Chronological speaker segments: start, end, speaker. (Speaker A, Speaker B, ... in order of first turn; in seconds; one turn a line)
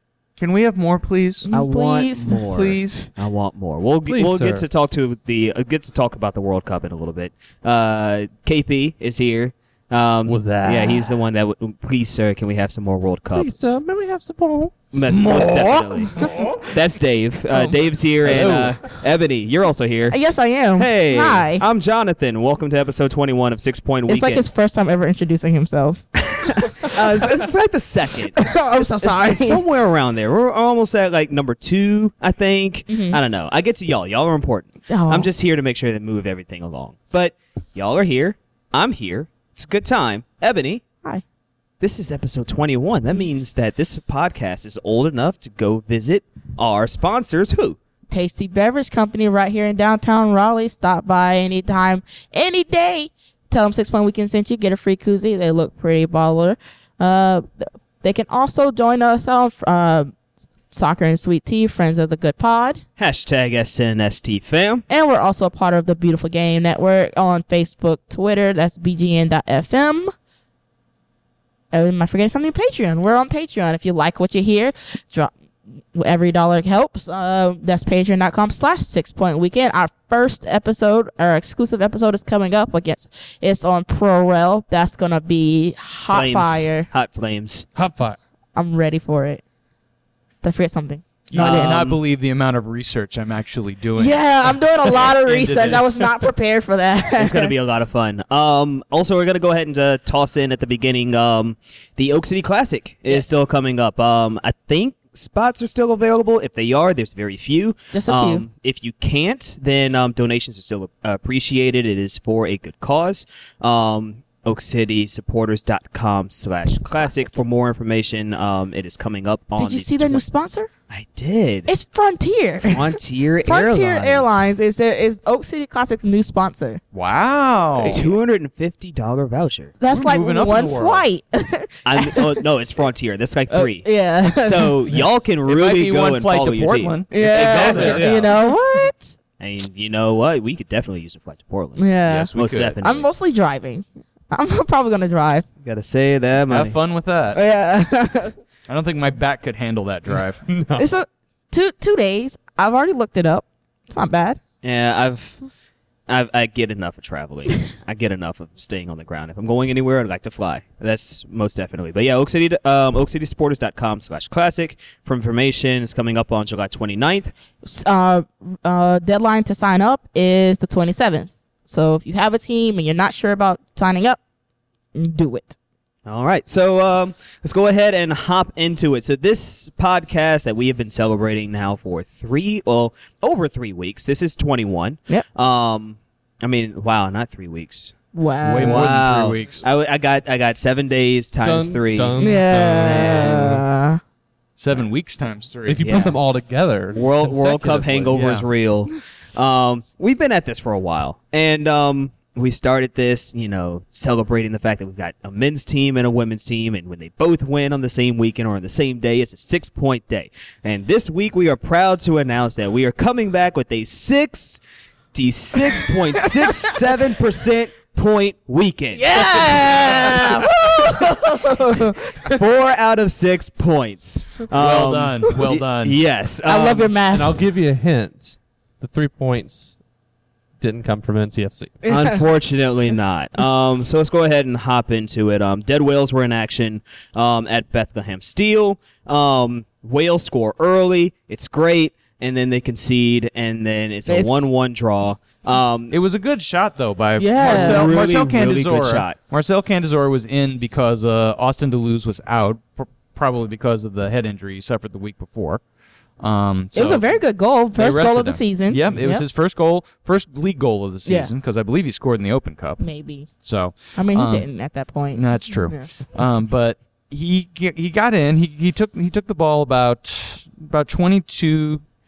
Speaker A: 0.4-1.5
Speaker B: 1.4-2.4
Speaker C: 1.5-13.6
Speaker A: 2.5-3.1
Speaker D: 4.1-4.7
Speaker D: 10.3-11.1
Speaker B: 10.7-11.0
Speaker D: 13.3-14.7
Speaker C: 14.9-20.2
Speaker A: 15.1-16.5
Speaker A: 18.2-18.8
Speaker B: 20.1-21.6
Speaker C: 20.8-24.4
Speaker B: 24.1-27.3
Speaker C: 26.6-40.8
Speaker B: 28.3-29.6
Speaker B: 32.9-33.2
Speaker B: 34.9-35.3
Speaker C: 41.8-47.8
Speaker B: 48.1-60.2
Speaker B: 60.7-62.8
Speaker C: 63.0-64.8
Speaker B: 64.9-70.1
Speaker B: 71.7-75.3
Speaker B: 75.9-86.9
Speaker C: 86.1-87.7
Speaker D: 87.8-88.2
Speaker B: 88.5-89.4
Speaker B: 90.4-91.8
Speaker A: 91.3-96.1
Speaker C: 91.3-92.0
Speaker B: 94.0-97.5
Speaker C: 97.2-120.2
Speaker B: 103.1-103.3
Speaker B: 107.9-108.5
Speaker B: 119.6-120.7
Speaker C: 120.9-121.7
Speaker B: 121.7-126.8
Speaker C: 122.6-124.6
Speaker A: 126.9-128.0
Speaker B: 127.8-128.1
Speaker C: 127.9-129.8
Speaker B: 129.8-132.4
Speaker A: 129.9-131.1
Speaker C: 131.8-138.1
Speaker B: 133.5-134.8
Speaker A: 135.5-138.1
Speaker B: 137.1-139.2
Speaker D: 137.3-138.5
Speaker C: 139.4-143.1
Speaker B: 141.8-145.5
Speaker A: 142.1-142.8
Speaker C: 145.6-146.8
Speaker A: 146.5-147.4
Speaker B: 147.3-148.3
Speaker A: 148.7-150.4
Speaker D: 150.5-150.9
Speaker B: 150.8-154.4
Speaker C: 154.6-155.4
Speaker C: 156.1-167.3
Speaker B: 167.6-174.2
Speaker B: 174.9-175.6
Speaker C: 176.1-188.0
Speaker B: 188.1-188.8
Speaker A: 188.4-189.6
Speaker C: 188.6-192.2
Speaker D: 191.4-193.6
Speaker B: 192.2-194.0
Speaker C: 192.9-193.6
Speaker A: 194.6-196.0
Speaker D: 195.7-198.2
Speaker C: 195.8-196.2
Speaker C: 196.9-214.6
Speaker A: 198.1-198.5
Speaker C: 215.1-220.4
Speaker B: 215.8-216.7
Speaker B: 218.9-222.3
Speaker C: 222.2-226.9
Speaker A: 224.5-226.0
Speaker B: 226.4-227.4
Speaker D: 227.1-229.8
Speaker D: 230.6-231.9
Speaker B: 231.8-232.2
Speaker C: 231.9-246.0
Speaker B: 244.1-244.5
Speaker A: 245.9-255.6
Speaker B: 247.2-247.9
Speaker C: 247.4-249.2
Speaker A: 256.2-257.1
Speaker B: 256.7-259.2
Speaker A: 257.7-262.8
Speaker B: 261.1-261.3
Speaker B: 262.8-263.3
Speaker A: 263.4-264.5
Speaker B: 264.0-265.9
Speaker A: 265.1-271.8